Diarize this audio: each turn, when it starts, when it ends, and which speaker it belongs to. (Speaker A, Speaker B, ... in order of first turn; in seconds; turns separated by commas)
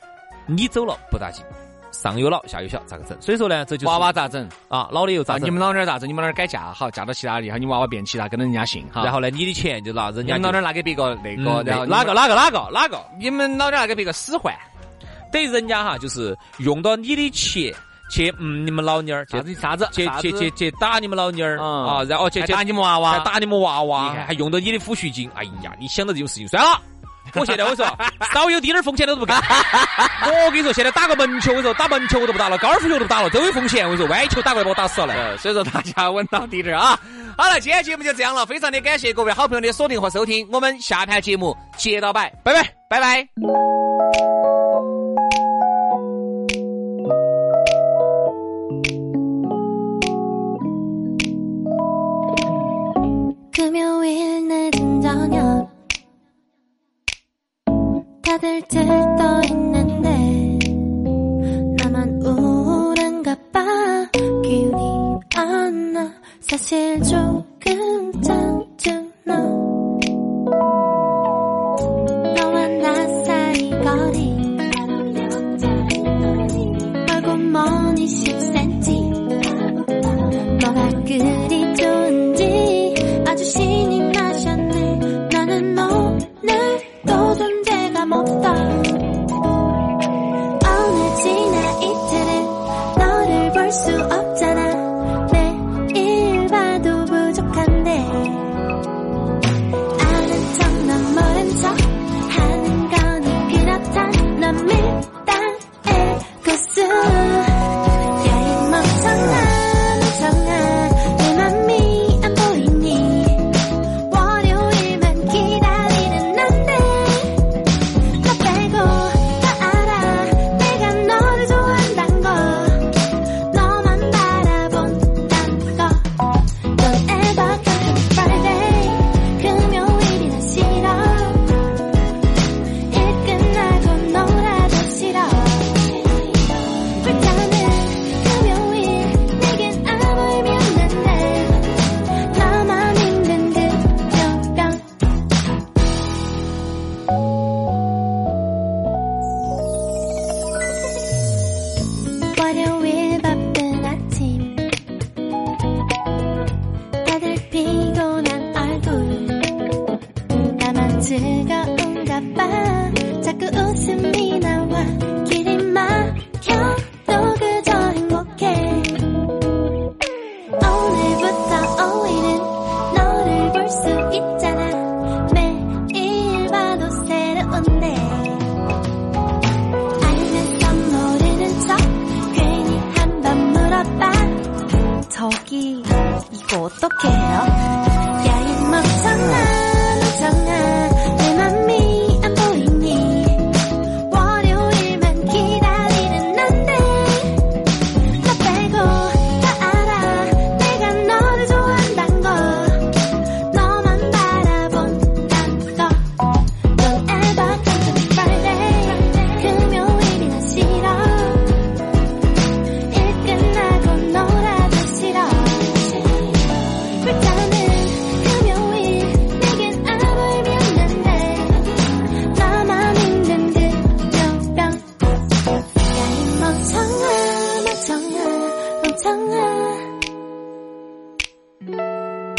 Speaker A: 0.5-5.6, Speaker B: 3.8-4.5, Speaker B: 5.3-9.1, Speaker A: 9.0-10.6, Speaker B: 10.2-12.2, Speaker A: 11.3-13.1, Speaker B: 13.1-14.7, Speaker A: 15.3-35.3, Speaker B: 19.3-20.5, Speaker B: 21.6-23.3, Speaker B: 24.0-24.3, Speaker B: 35.1-42.4, Speaker A: 42.4-43.3, Speaker C: 53.5-55.7, Speaker C: 58.2-61.0, Speaker C: 61.7-69.7, Speaker C: 72.3-89.1, Speaker C: 90.6-98.6, Speaker C: 100.0-131.7, Speaker C: 132.8-144.9, Speaker C: 152.3-154.7, Speaker C: 157.0-159.7, Speaker C: 160.3-169.2, Speaker C: 170.6-178.5, Speaker C: 180.0-211.6, Speaker C: 212.8-224.9, Speaker C: 225.8-230.0